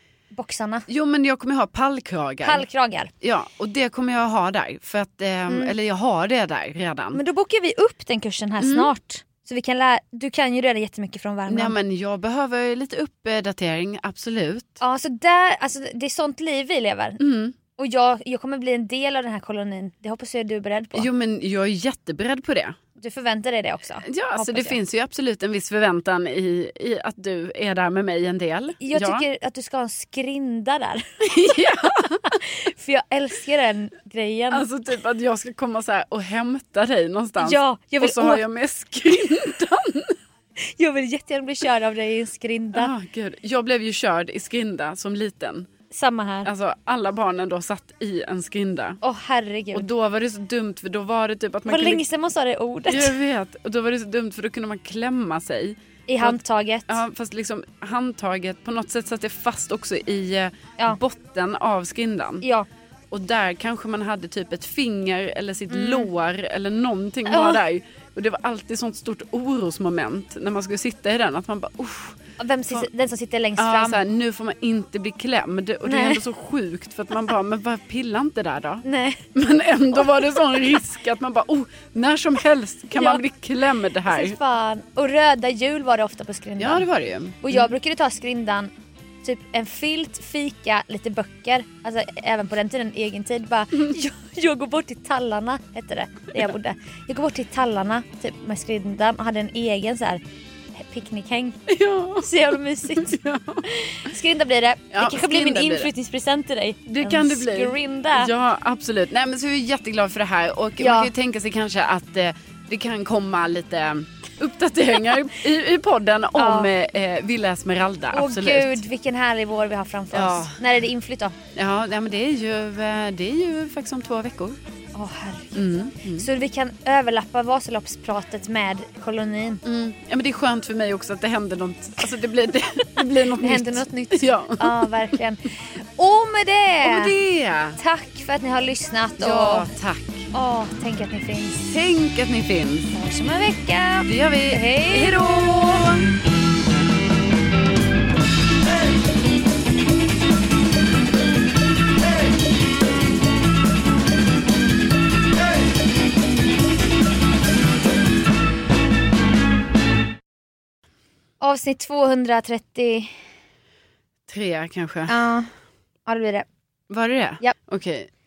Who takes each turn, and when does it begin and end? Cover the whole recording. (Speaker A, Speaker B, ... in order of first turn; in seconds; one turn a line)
Speaker A: 0.3-0.9
Speaker B: 0.9-2.6
Speaker A: 2.4-3.1
Speaker B: 3.2-7.2
Speaker A: 5.5-5.7
Speaker A: 7.1-11.7
Speaker B: 8.6-8.9
Speaker B: 11.5-14.8
Speaker A: 14.8-17.2
Speaker B: 17.2-17.6
Speaker A: 17.8-21.1
Speaker B: 20.9-22.7
Speaker A: 23.0-24.8
Speaker B: 24.0-29.2
Speaker A: 28.8-34.6
Speaker B: 31.2-32.4
Speaker B: 34.5-40.1
Speaker A: 37.4-38.4
Speaker A: 40.6-42.9
Speaker B: 42.7-45.7
Speaker A: 45.9-46.5
Speaker B: 46.4-49.0
Speaker A: 49.0-49.9
Speaker B: 49.7-52.0
Speaker A: 51.7-53.1
Speaker B: 52.9-62.4
Speaker A: 56.1-57.0
Speaker A: 62.4-62.7
Speaker B: 63.1-72.2
Speaker A: 65.7-66.1
Speaker A: 67.2-67.6
Speaker A: 72.4-74.0
Speaker B: 73.6-78.8
Speaker A: 75.8-76.2
Speaker A: 78.8-79.3
Speaker B: 79.3-84.4
Speaker A: 80.0-80.5
Speaker A: 82.9-83.2
Speaker A: 84.0-86.8
Speaker B: 86.6-87.7
Speaker A: 87.4-88.7
Speaker A: 89.2-100.2
Speaker A: 100.8-101.6
Speaker B: 101.7-103.7
Speaker A: 102.2-108.3
Speaker B: 104.9-105.9
Speaker B: 106.9-118.8
Speaker A: 110.8-111.1
Speaker A: 116.3-116.7
Speaker A: 118.1-121.3
Speaker B: 120.1-120.6
Speaker B: 121.5-124.6
Speaker A: 124.9-125.6
Speaker B: 125.5-126.3
Speaker A: 126.2-129.6
Speaker B: 129.6-135.1
Speaker A: 133.0-137.1
Speaker B: 136.8-137.8
Speaker A: 137.8-139.7
Speaker B: 139.2-140.3
Speaker A: 140.3-141.7
Speaker B: 141.6-142.9
Speaker A: 142.9-145.3
Speaker B: 144.0-146.1
Speaker A: 161.4-163.1
Speaker B: 164.3-165.1
Speaker A: 165.1-165.5
Speaker A: 166.1-166.4
Speaker B: 166.9-168.1